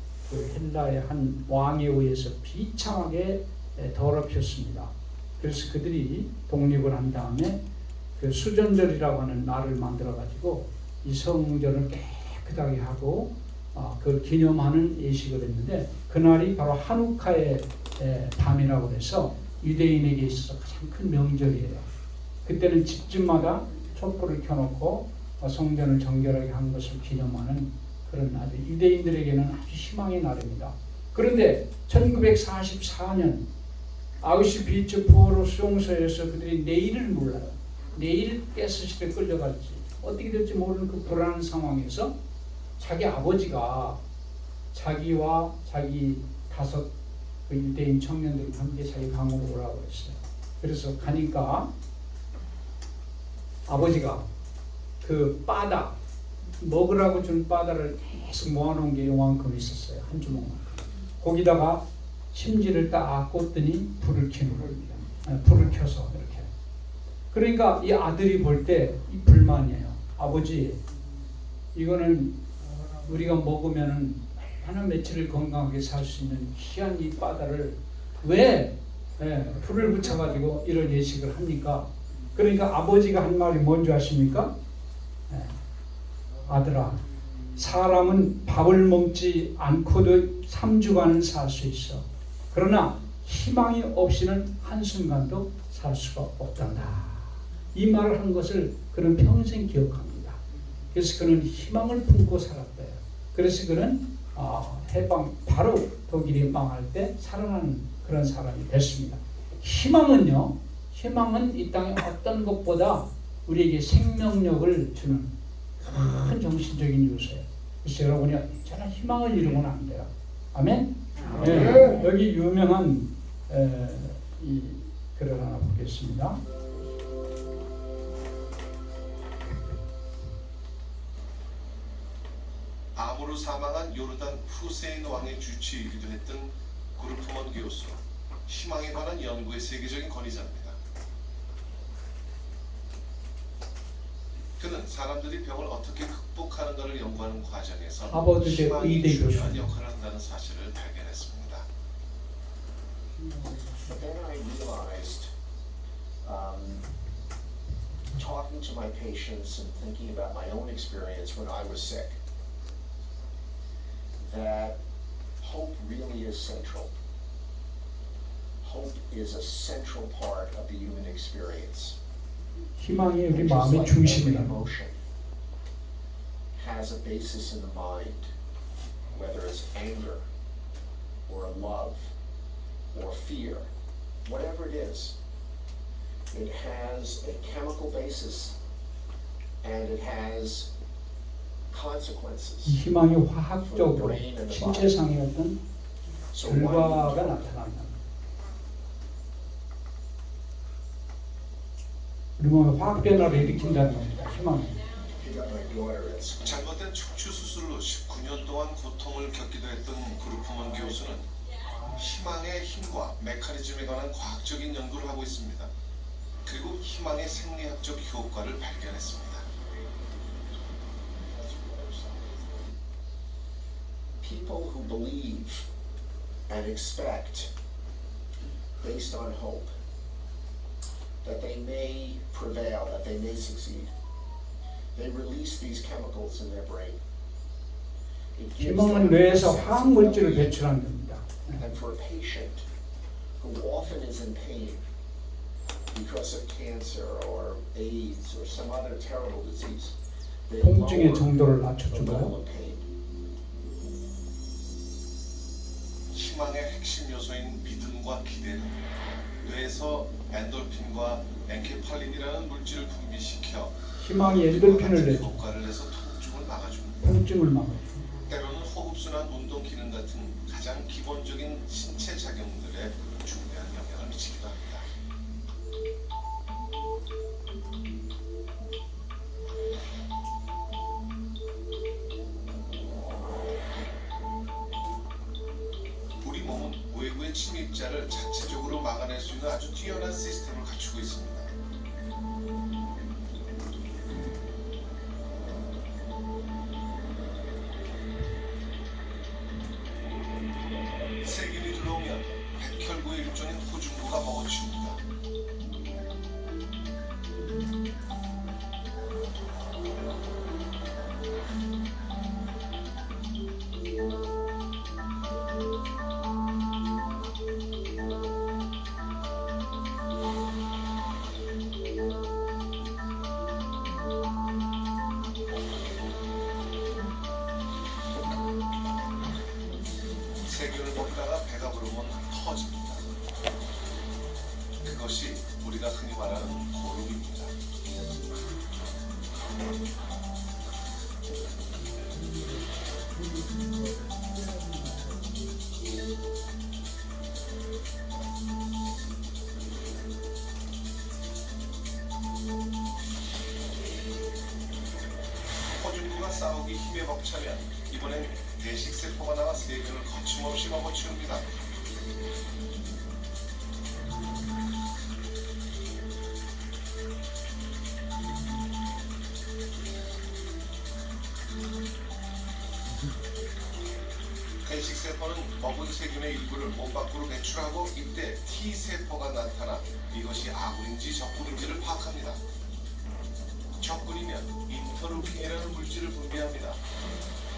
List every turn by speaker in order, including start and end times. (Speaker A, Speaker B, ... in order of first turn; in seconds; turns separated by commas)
Speaker A: 0.3-7.6, Speaker A: 8.2-21.9, Speaker A: 22.4-33.5, Speaker A: 34.2-42.1, Speaker A: 42.8-44.0, Speaker A: 44.7-46.9, Speaker A: 47.5-51.7, Speaker A: 53.7-54.3, Speaker A: 55.0-55.9, Speaker A: 56.6-66.5, Speaker A: 67.3-70.8, Speaker A: 71.7-72.4, Speaker A: 73.0-84.5, Speaker A: 85.3-85.6, Speaker A: 86.5-87.0, Speaker A: 87.5-100.4, Speaker A: 100.9-126.4, Speaker B: 132.9-140.8, Speaker B: 144.6-151.7, Speaker A: 148.0-149.7, Speaker C: 153.7-155.3, Speaker C: 156.2-156.8, Speaker C: 158.1-162.2, Speaker C: 164.2-164.8, Speaker C: 165.4-166.9, Speaker C: 168.6-172.0, Speaker A: 172.8-174.6, Speaker C: 173.3-174.9, Speaker C: 176.5-178.3, Speaker C: 179.1-180.2, Speaker C: 181.3-182.1, Speaker C: 182.9-183.7, Speaker C: 184.2-185.2, Speaker C: 186.3-188.5, Speaker C: 189.6-190.7, Speaker C: 191.7-192.8, Speaker A: 192.6-195.6, Speaker C: 193.6-195.0, Speaker C: 196.3-197.5, Speaker A: 196.4-198.0, Speaker A: 202.4-204.8, Speaker C: 205.2-206.5, Speaker B: 206.4-211.3, Speaker B: 211.8-215.7, Speaker B: 216.4-219.4, Speaker C: 221.2-222.6, Speaker C: 224.2-225.7, Speaker C: 226.5-227.5, Speaker C: 228.8-229.7, Speaker C: 231.2-233.9, Speaker C: 234.9-237.0, Speaker C: 238.3-240.6, Speaker A: 238.6-241.6, Speaker C: 241.6-242.6, Speaker C: 243.4-244.8, Speaker C: 245.9-249.9, Speaker C: 250.5-251.3, Speaker A: 250.6-252.3, Speaker C: 251.9-252.8, Speaker B: 256.1-258.8, Speaker B: 259.4-267.1, Speaker A: 264.0-265.3, Speaker A: 267.0-267.9, Speaker B: 268.2-274.9, Speaker B: 286.2-291.5, Speaker B: 301.2-305.0, Speaker B: 330.4-333.0, Speaker B: 334.8-337.5, Speaker B: 355.8-361.6, Speaker B: 374.6-382.4, Speaker B: 383.8-386.8